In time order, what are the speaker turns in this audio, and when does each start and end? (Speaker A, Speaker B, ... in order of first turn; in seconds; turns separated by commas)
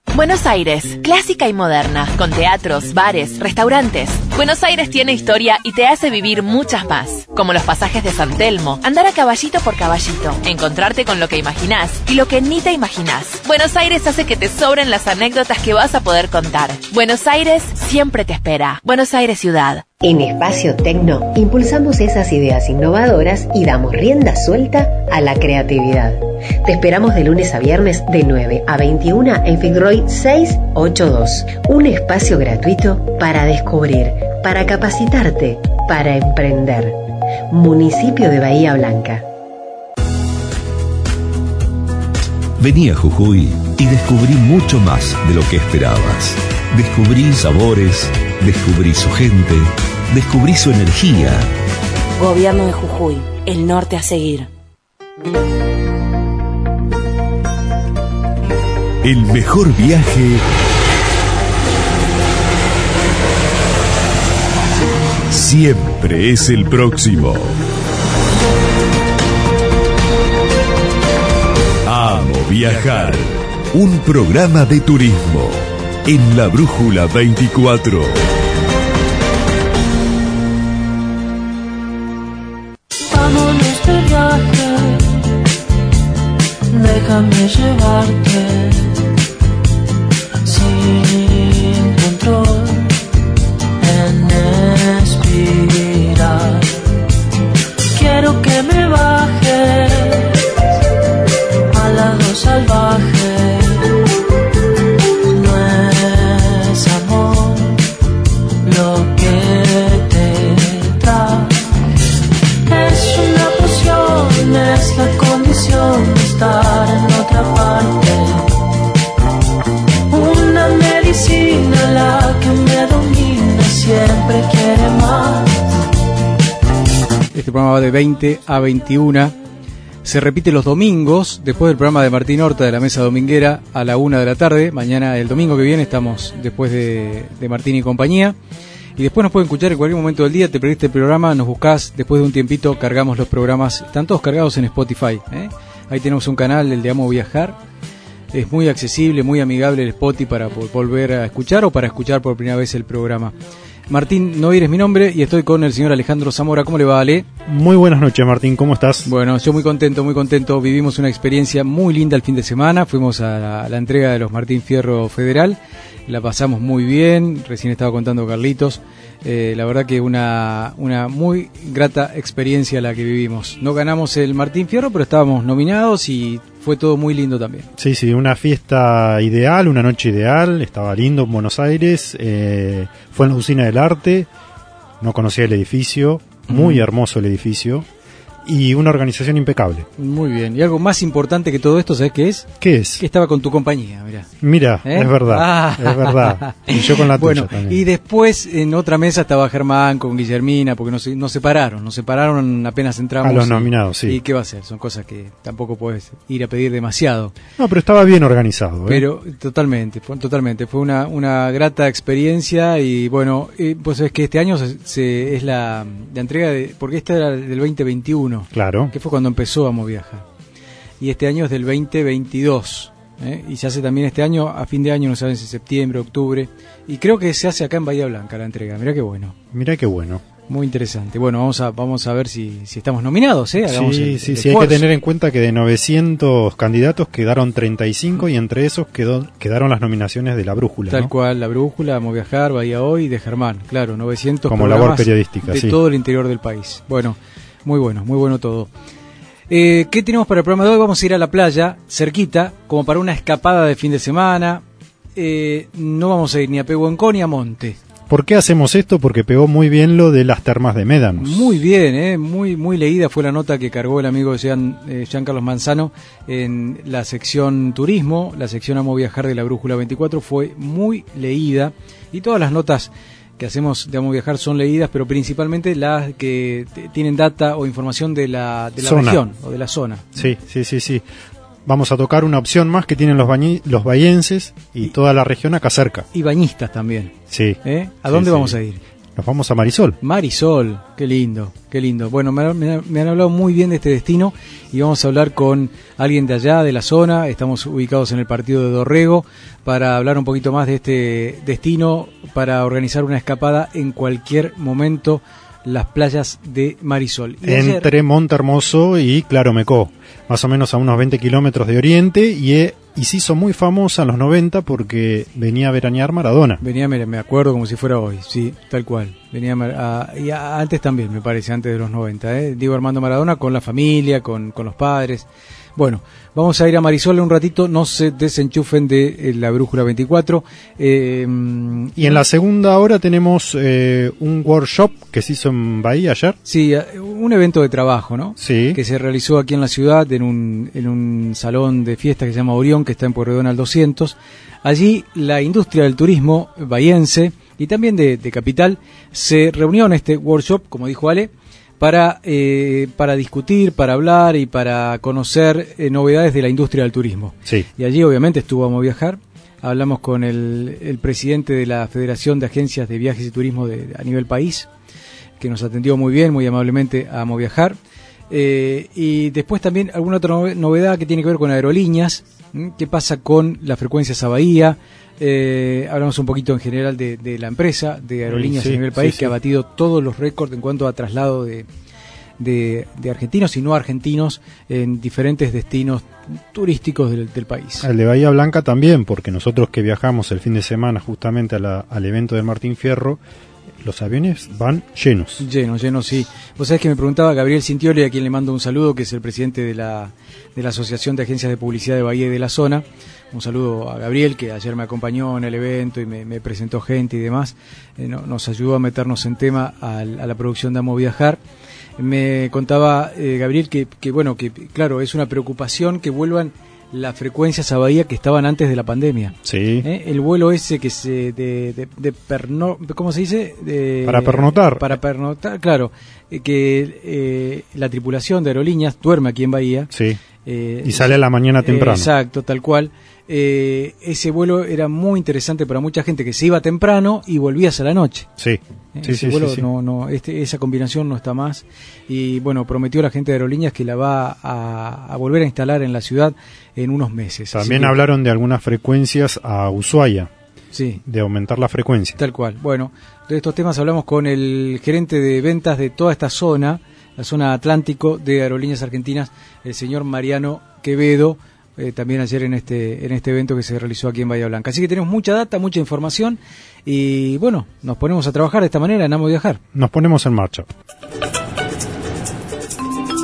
Speaker A: 0.1-19.9, Speaker B: 20.0-37.0, Speaker B: 37.5-39.2, Speaker C: 42.6-51.5, Speaker D: 52.2-54.5, Speaker C: 59.0-60.4, Speaker C: 65.3-67.6, Speaker C: 71.9-78.2, Speaker E: 83.1-85.1, Speaker E: 86.7-89.0, Speaker E: 90.4-92.9, Speaker E: 93.8-96.7, Speaker E: 97.9-100.3, Speaker E: 101.7-103.9, Speaker E: 105.3-107.8, Speaker E: 108.7-111.7, Speaker E: 112.7-118.5, Speaker E: 120.1-125.5, Speaker F: 127.3-129.4, Speaker F: 130.0-138.4, Speaker F: 139.0-147.6, Speaker F: 148.3-153.3, Speaker F: 153.9-157.3, Speaker G: 157.5-159.1, Speaker F: 159.1-177.7, Speaker G: 177.8-184.3, Speaker G: 185.0-187.9, Speaker F: 186.5-186.8, Speaker G: 188.5-189.9, Speaker F: 190.0-194.3, Speaker G: 192.6-193.0, Speaker G: 194.4-197.8, Speaker F: 194.8-207.4, Speaker G: 203.2-204.2, Speaker G: 207.6-209.1, Speaker F: 208.9-220.2, Speaker G: 218.5-218.9, Speaker F: 221.0-229.4, Speaker G: 229.5-230.2, Speaker F: 230.5-234.9, Speaker G: 233.7-241.1, Speaker F: 240.9-248.7, Speaker G: 244.5-245.8, Speaker F: 249.5-254.6, Speaker F: 255.2-257.8, Speaker G: 258.1-261.6, Speaker F: 261.2-280.1, Speaker G: 278.8-279.2, Speaker G: 280.1-281.1, Speaker G: 281.6-286.1, Speaker F: 286.1-288.8, Speaker G: 287.3-288.6, Speaker G: 289.2-290.0, Speaker F: 290.0-307.9, Speaker G: 307.4-316.6, Speaker F: 316.6-332.2, Speaker G: 332.0-336.4, Speaker F: 336.4-364.7, Speaker G: 338.4-338.8, Speaker F: 365.4-367.8, Speaker F: 368.3-381.7, Speaker G: 378.3-379.3, Speaker F: 382.4-387.9, Speaker G: 387.8-393.2, Speaker G: 393.8-395.4, Speaker F: 395.4-411.4, Speaker F: 412.0-429.9, Speaker G: 419.4-419.9, Speaker G: 424.1-425.0, Speaker G: 429.9-430.2, Speaker F: 430.4-438.3, Speaker G: 430.8-432.1, Speaker G: 438.4-439.7, Speaker F: 438.9-448.0, Speaker G: 447.5-450.3, Speaker F: 450.7-451.0, Speaker G: 451.1-452.2, Speaker F: 452.2-469.6, Speaker G: 469.7-470.7